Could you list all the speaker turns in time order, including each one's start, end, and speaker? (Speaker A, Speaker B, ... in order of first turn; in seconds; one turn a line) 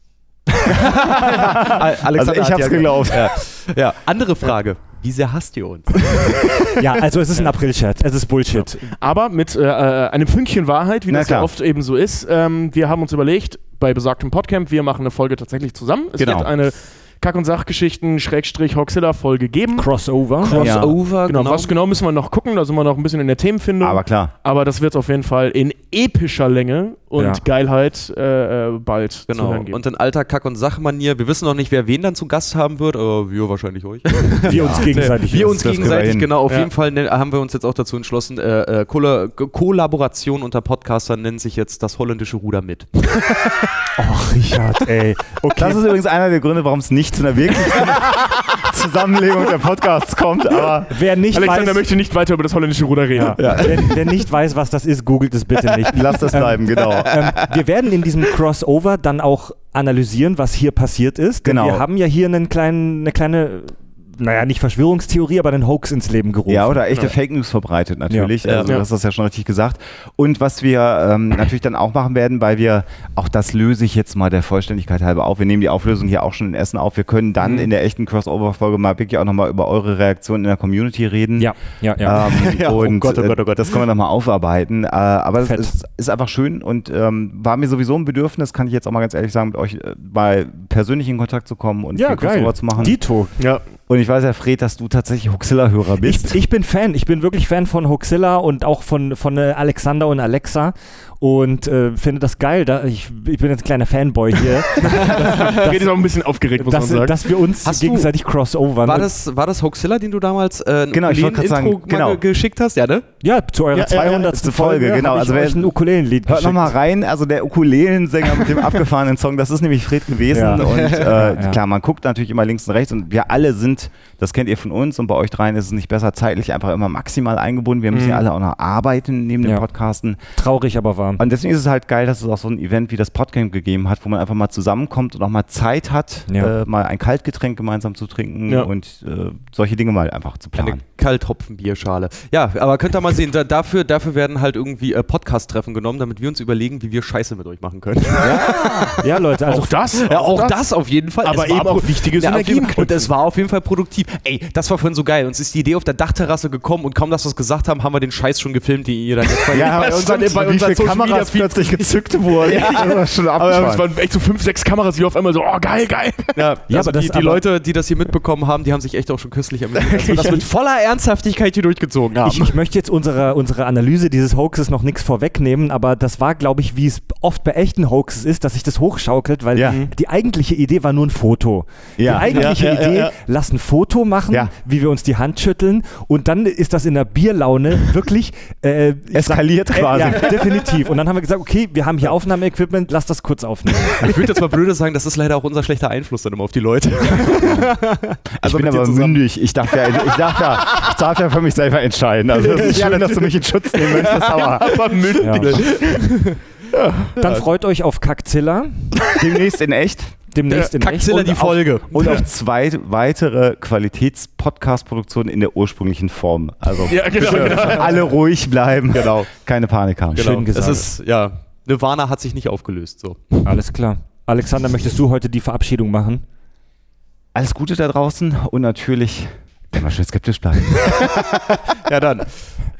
Speaker A: 0.6-6.7
Speaker B: 1.0-3.3
Speaker C: 6.8-8.9
Speaker D: 8.8-19.9
Speaker B: 11.1-11.5
Speaker B: 16.2-16.5
Speaker C: 19.7-20.7
Speaker D: 20.4-29.8
Speaker A: 20.5-21.7
Speaker B: 20.5-21.0
Speaker B: 23.8-24.3
Speaker C: 27.2-27.4
Speaker A: 29.3-43.8
Speaker C: 34.4-35.9
Speaker B: 34.5-36.3
Speaker D: 36.5-36.7
Speaker C: 44.0-45.8
Speaker B: 45.6-50.9
Speaker C: 50.9-51.8
Speaker D: 51.3-53.7
Speaker C: 53.1-67.1
Speaker A: 53.4-53.8
Speaker B: 53.6-53.9
Speaker B: 55.9-57.3
Speaker B: 61.4-61.9
Speaker B: 66.5-93.0
Speaker C: 68.1-68.3
Speaker A: 68.4-68.8
Speaker A: 77.4-77.7
Speaker C: 81.4-82.2
Speaker A: 82.1-83.8
Speaker C: 85.4-85.7
Speaker C: 91.9-93.3
Speaker B: 93.9-96.4
Speaker C: 96.0-105.8
Speaker A: 104.8-105.6
Speaker D: 104.9-107.2
Speaker C: 106.6-109.1
Speaker A: 107.6-108.1
Speaker A: 108.8-113.1
Speaker B: 110.9-112.2
Speaker C: 113.2-116.7
Speaker D: 113.7-114.1
Speaker B: 113.8-115.7
Speaker B: 116.2-130.2
Speaker C: 120.3-121.6
Speaker A: 120.7-121.1
Speaker D: 127.9-128.2
Speaker C: 130.3-131.2
Speaker B: 131.2-140.8
Speaker A: 140.5-149.1
Speaker C: 148.9-149.8
Speaker D: 149.4-150.7
Speaker A: 149.9-163.7
Speaker D: 151.2-153.1
Speaker B: 159.5-163.8
Speaker D: 162.7-166.5
Speaker A: 166.3-172.6
Speaker C: 166.7-167.4
Speaker D: 170.0-170.3
Speaker C: 170.1-170.4
Speaker C: 172.2-194.2
Speaker B: 179.5-179.9
Speaker B: 182.0-182.7
Speaker A: 182.2-183.1
Speaker B: 189.1-190.7
Speaker A: 193.9-199.2
Speaker B: 198.4-205.1
Speaker D: 202.5-207.3
Speaker A: 204.0-204.4
Speaker C: 205.2-205.6
Speaker A: 205.4-206.4
Speaker C: 207.2-208.9
Speaker B: 209.1-210.2
Speaker C: 210.3-211.8
Speaker A: 210.5-212.2
Speaker B: 211.9-220.3
Speaker D: 216.9-218.1
Speaker A: 217.2-217.7
Speaker A: 218.9-219.3
Speaker C: 220.1-220.9
Speaker A: 220.1-223.6
Speaker C: 223.4-226.2
Speaker B: 227.3-231.0
Speaker A: 230.7-232.4